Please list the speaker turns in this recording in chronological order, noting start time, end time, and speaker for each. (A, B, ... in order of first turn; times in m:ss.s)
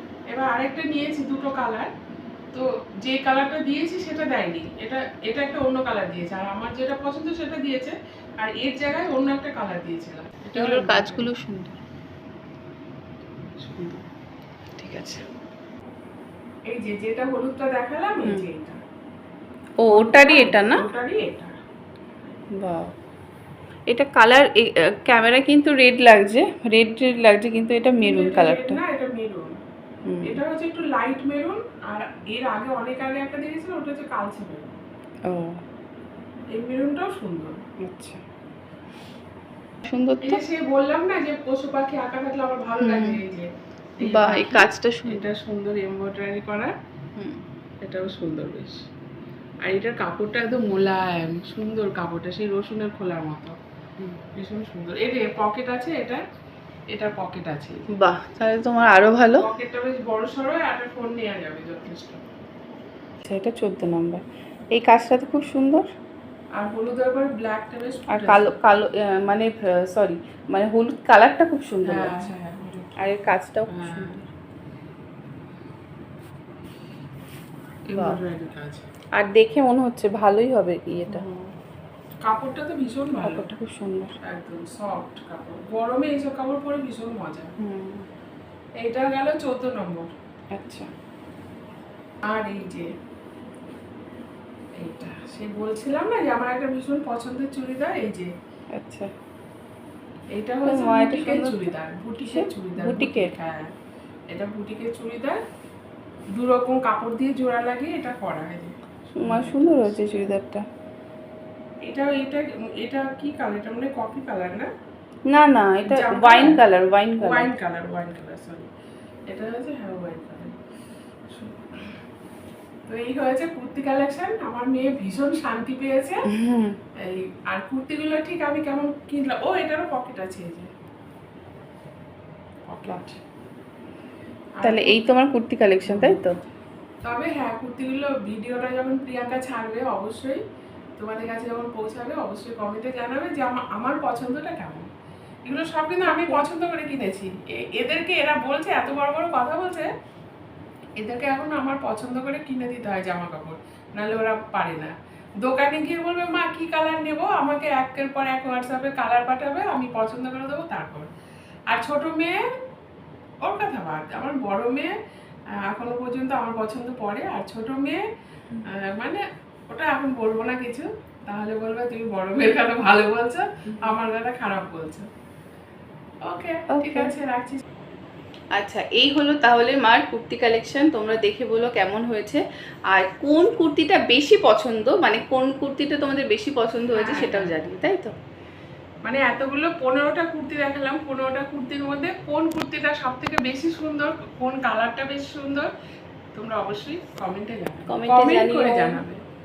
0:00.3-0:01.9 A
0:02.5-0:11.3 A
0:10.5-0:11.8 B
0:13.5-0:13.8 A
0:14.8-0:15.2 B
0:16.7-0:18.8 A
0:19.8-0:20.8 B
0:19.8-0:21.5 A
0:22.5-0:22.9 B
0:23.9-0:28.8 B
0:28.0-0:29.6 A
0:30.0-0:30.4 B
0:30.2-0:34.8 A
0:35.3-0:35.6 B
0:36.5-0:37.6 A
0:37.8-0:38.2 B
0:39.8-0:40.4 B
0:40.2-0:46.7 A
0:42.8-0:43.2 B
0:44.0-0:45.2 B
0:47.2-0:47.4 B
0:47.8-0:48.9 A
0:49.6-0:53.6 A
0:54.3-0:56.2 A
0:56.9-0:57.9 A
0:57.9-0:59.5 B
0:59.4-1:02.2 A
1:03.2-1:04.2 B
1:04.7-1:05.9 B
1:06.6-1:08.5 A
1:08.1-1:12.2 B
1:11.8-1:13.1 A
1:13.0-1:14.1 B
1:13.7-1:14.2 A
1:17.9-1:18.8 A
1:17.9-1:18.2 B
1:19.1-1:21.3 B
1:21.1-1:21.5 A
1:22.2-1:23.5 A
1:23.2-1:24.1 B
1:24.2-1:27.5 A
1:27.6-1:28.0 B
1:28.8-1:30.1 A
1:30.5-1:30.9 B
1:32.2-1:32.9 A
1:34.8-1:38.3 A
1:38.7-1:39.1 B
1:40.3-1:43.7 A
1:40.7-1:41.7 B
1:42.2-1:43.3 B
1:44.3-1:45.4 A
1:46.3-1:50.0 A
1:49.1-1:50.6 B
1:51.8-1:54.7 A
1:55.3-1:57.5 B
1:55.8-1:56.6 A
1:57.2-1:58.7 A
1:59.3-2:00.6 A
2:01.3-2:01.9 A
2:02.9-2:06.3 A
2:06.3-2:06.8 B
2:07.0-2:10.7 A
2:12.7-2:13.2 A
2:14.6-2:15.0 A
2:14.6-2:16.4 B
2:15.8-2:16.2 A
2:17.0-2:20.4 A
2:21.0-2:24.9 A
2:25.4-2:29.9 A
2:26.1-2:26.4 B
2:31.0-2:41.1 A
2:41.7-2:42.5 A
2:43.4-2:44.9 A
2:45.6-2:48.0 A
2:48.6-2:55.1 A
2:53.7-2:54.0 B
2:56.2-2:57.6 A
2:56.7-2:57.1 B
2:58.5-3:08.1 B
3:06.9-3:07.6 A
3:09.0-3:15.7 A
3:16.3-3:19.2 A
3:17.9-3:19.0 B